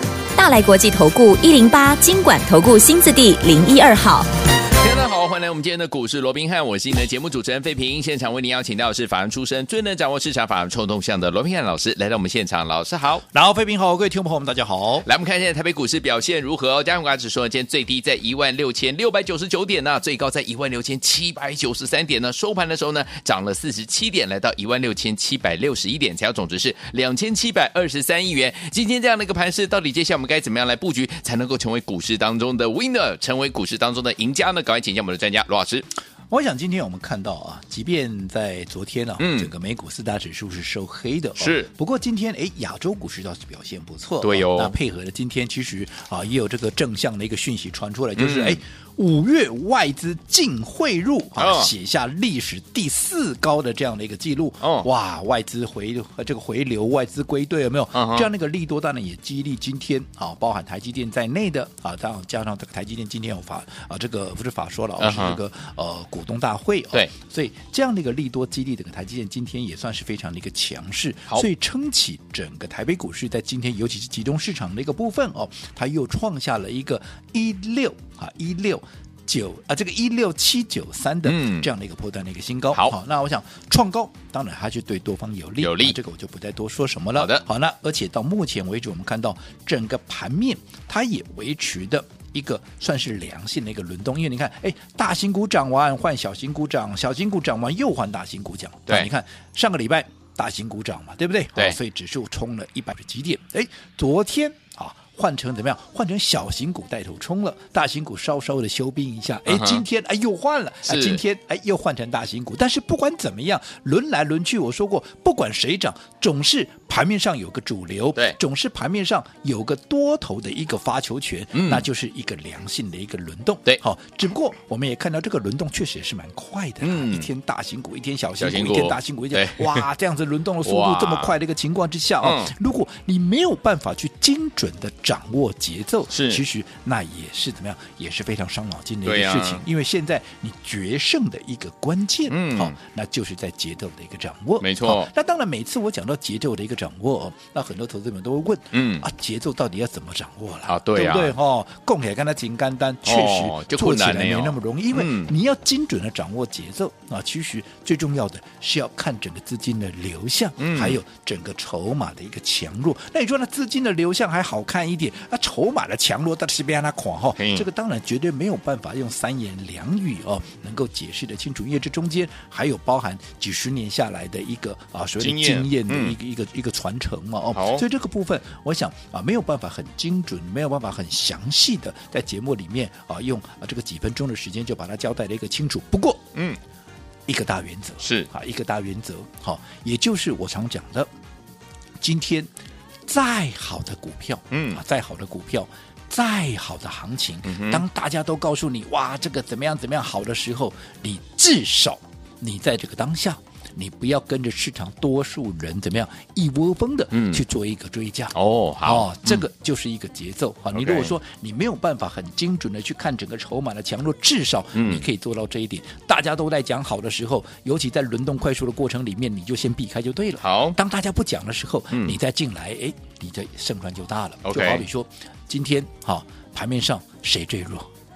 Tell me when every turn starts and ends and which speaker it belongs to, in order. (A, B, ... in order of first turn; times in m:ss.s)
0:00.4-0:04.3 A
0:04.8-0:13.2 B
0:13.3-0:15.0 C
0:15.0-0:35.8 B
0:36.3-3:06.3 C
0:39.2-0:39.5 B
0:41.4-0:41.7 B
0:44.2-0:44.7 B
0:48.2-0:48.6 B
0:51.4-0:51.7 B
0:54.6-0:54.9 B
0:57.9-0:58.3 B
1:05.0-1:05.4 B
1:21.2-1:21.7 B
1:25.6-1:26.0 B
1:27.1-1:27.4 B
1:49.5-1:49.8 B
1:50.8-1:51.2 B
2:01.5-2:01.8 B
2:06.8-2:07.3 B
2:08.4-2:09.8 B
2:10.6-2:11.3 B
2:12.2-2:12.5 B
2:16.1-2:16.4 B
2:19.0-2:19.6 B
2:22.3-2:22.7 B
2:24.6-2:25.1 B
2:28.7-2:29.0 B
2:30.7-2:31.3 B
2:33.0-2:35.3 B
2:40.6-2:41.0 B
2:47.4-2:47.6 B
2:55.2-2:56.1 B
2:57.5-2:57.8 B
3:06.3-3:06.6 B
3:07.3-3:11.1 C
3:08.0-3:08.3 B
3:12.0-3:12.5 C
3:13.1-3:47.9 C
3:14.5-3:14.8 B
3:17.5-3:17.8 B
3:27.1-3:27.4 B
3:28.3-3:29.4 B
3:30.7-3:31.1 B
3:34.7-3:35.0 B
3:40.4-3:40.8 B
3:41.9-3:42.2 B
3:44.4-3:44.8 B